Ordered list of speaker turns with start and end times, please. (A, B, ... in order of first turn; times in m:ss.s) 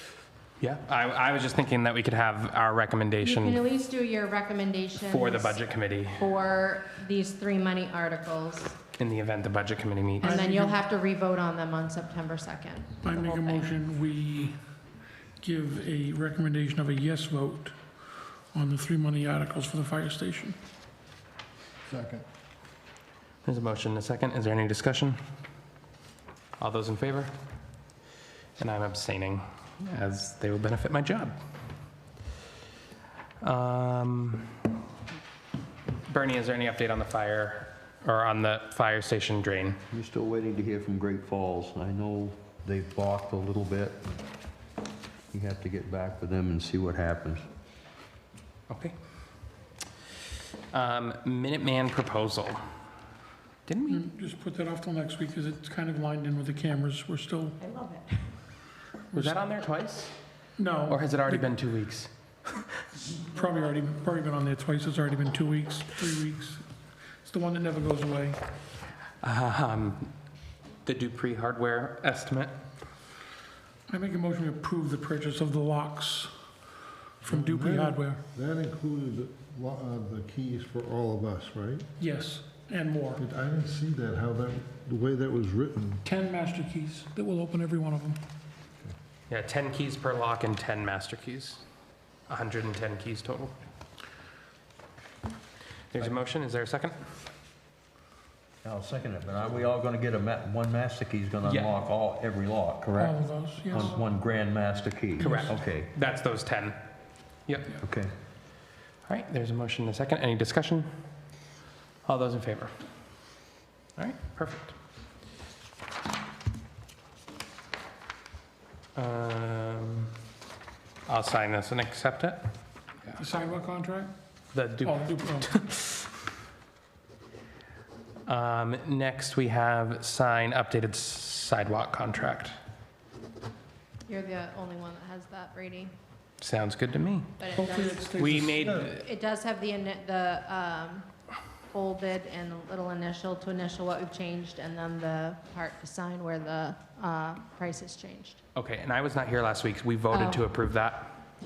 0:00.6-0:03.6 A
0:03.2-0:08.8 B
0:05.1-0:06.3 A
0:09.0-0:10.4 A
0:10.2-0:10.8 C
0:10.2-0:13.7 B
0:13.0-0:14.6 C
0:15.4-0:17.8 C
0:18.5-0:20.6 C
0:21.8-0:22.2 D
0:23.4-0:25.2 A
0:26.6-0:27.3 A
0:28.6-0:31.3 A
0:33.4-0:34.7 A
0:36.0-0:39.8 A
0:39.9-0:44.2 E
0:45.3-0:47.5 E
0:48.7-0:48.9 A
0:50.7-0:52.6 A
0:53.6-0:54.0 A
0:53.9-0:57.6 C
0:57.6-0:58.2 B
0:59.1-0:59.4 C
0:59.1-1:00.1 A
1:00.6-1:01.5 C
1:00.8-1:02.7 A
1:03.1-1:06.6 C
1:07.2-1:08.4 C
1:09.2-1:10.1 A
1:10.8-1:12.5 A
1:13.9-1:16.3 C
1:17.2-1:21.8 D
1:17.2-1:18.2 C
1:22.0-1:23.2 C
1:23.2-1:26.0 D
1:26.0-1:28.2 C
1:29.3-1:31.6 A
1:32.3-1:33.5 A
1:35.9-1:37.0 A
1:38.6-1:45.9 E
1:41.4-1:41.8 A
1:43.0-1:44.0 C
1:45.2-1:45.5 C
1:45.2-1:46.8 A
1:47.5-1:47.8 A
1:47.8-1:48.1 E
1:49.0-1:50.9 A
1:52.0-1:52.7 A
1:54.0-1:54.7 A
1:58.9-2:00.1 A
2:01.0-2:02.4 A
2:03.1-2:04.1 C
2:04.5-2:06.0 A
2:04.8-2:05.5 C
2:08.2-2:12.6 A
2:14.1-2:15.9 B
2:16.4-2:17.4 A
2:17.4-2:21.1 B
2:17.6-2:18.9 C
2:18.1-2:19.0 A
2:21.7-2:28.4 B
2:28.5-2:31.2 A
2:30.1-2:30.5 B